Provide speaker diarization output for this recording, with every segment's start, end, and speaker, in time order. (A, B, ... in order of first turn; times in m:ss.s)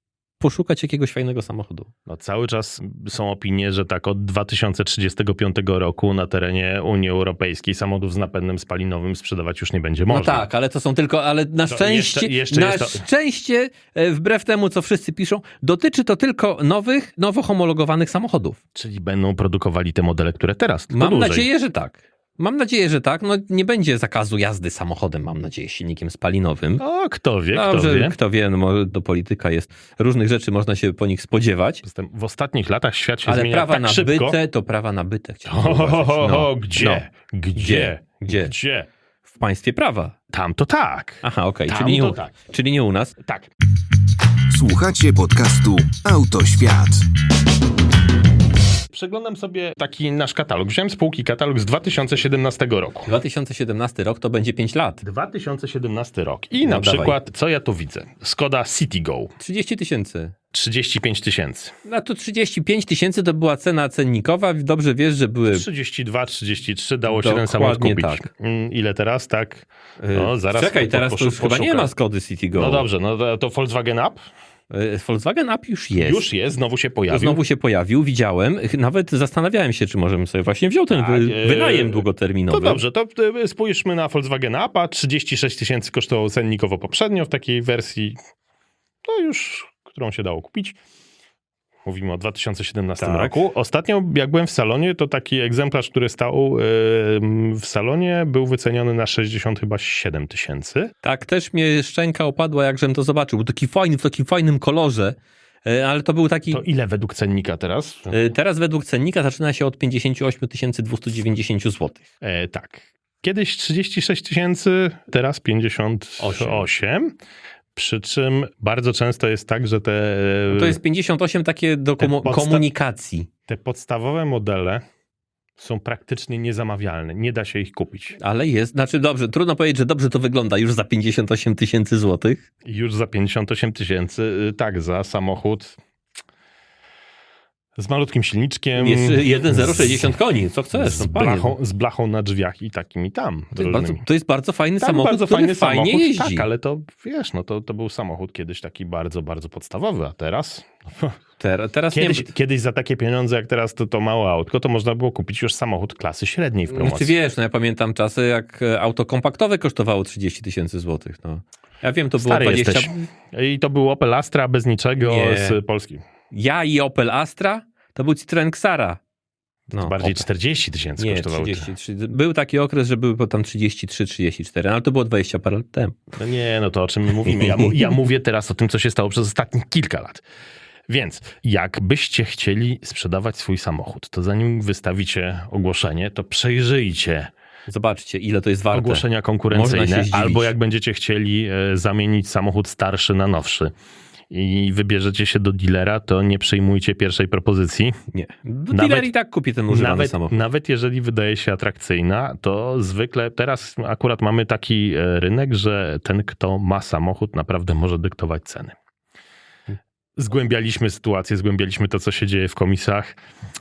0:00.4-0:01.9 A
0:02.1-0:10.4 B
0:10.1-0:18.6 A
0:11.7-0:13.0 B
0:18.7-0:21.5 B
0:20.9-0:26.8 A
0:26.8-0:28.1 B
0:27.5-0:31.8 A
0:31.8-0:34.4 B
0:33.2-0:37.0 A
0:35.5-0:38.9 B
0:37.6-0:38.5 A
0:39.3-0:40.1 A
0:40.3-0:42.3 B
0:41.2-0:43.2 A
0:43.2-0:43.5 B
0:44.5-0:47.1 C
0:48.9-0:53.1 B
0:53.1-0:55.0 A
0:55.0-0:59.3 B
0:56.6-0:57.2 A
0:59.4-1:00.3 A
1:00.5-1:01.7 B
1:01.8-1:05.6 A
1:05.5-1:11.9 B
1:07.1-1:08.3 A
1:10.0-1:12.8 A
1:12.5-1:14.2 B
1:14.7-1:16.2 A
1:16.0-1:17.4 B
1:17.1-1:22.8 A
1:20.9-1:28.2 B
1:29.0-1:30.8 B
1:31.8-1:40.9 B
1:33.0-1:33.4 A
1:41.0-1:46.6 A
1:46.5-1:48.2 B
1:48.1-1:52.1 A
1:52.2-1:57.1 B
1:56.2-1:56.6 A
1:57.7-2:00.8 B
2:00.5-2:03.3 A
2:02.0-2:02.6 B
2:03.5-2:04.8 B
2:05.6-2:08.2 B
2:08.2-2:12.4 A
2:12.6-2:15.8 B
2:17.8-2:19.8 B
2:18.8-2:21.5 A
2:20.7-2:24.0 B
2:23.5-2:26.4 A
2:24.8-2:31.1 B
2:31.4-2:32.3 A
2:31.9-2:37.1 B
2:36.7-2:43.0 A
2:42.2-2:46.0 B
2:45.0-2:45.6 A
2:46.3-2:49.0 A
2:49.7-2:50.2 A
2:49.7-2:51.7 B
2:51.0-2:56.1 A
2:56.2-3:00.2 B
2:57.2-2:58.0 A
3:00.9-3:07.3 B
3:07.7-3:10.5 A
3:08.7-3:13.7 B
3:14.3-3:18.0 B
3:18.1-3:20.4 A
3:18.7-3:19.1 B
3:19.7-3:28.7 B
3:30.2-3:33.2 B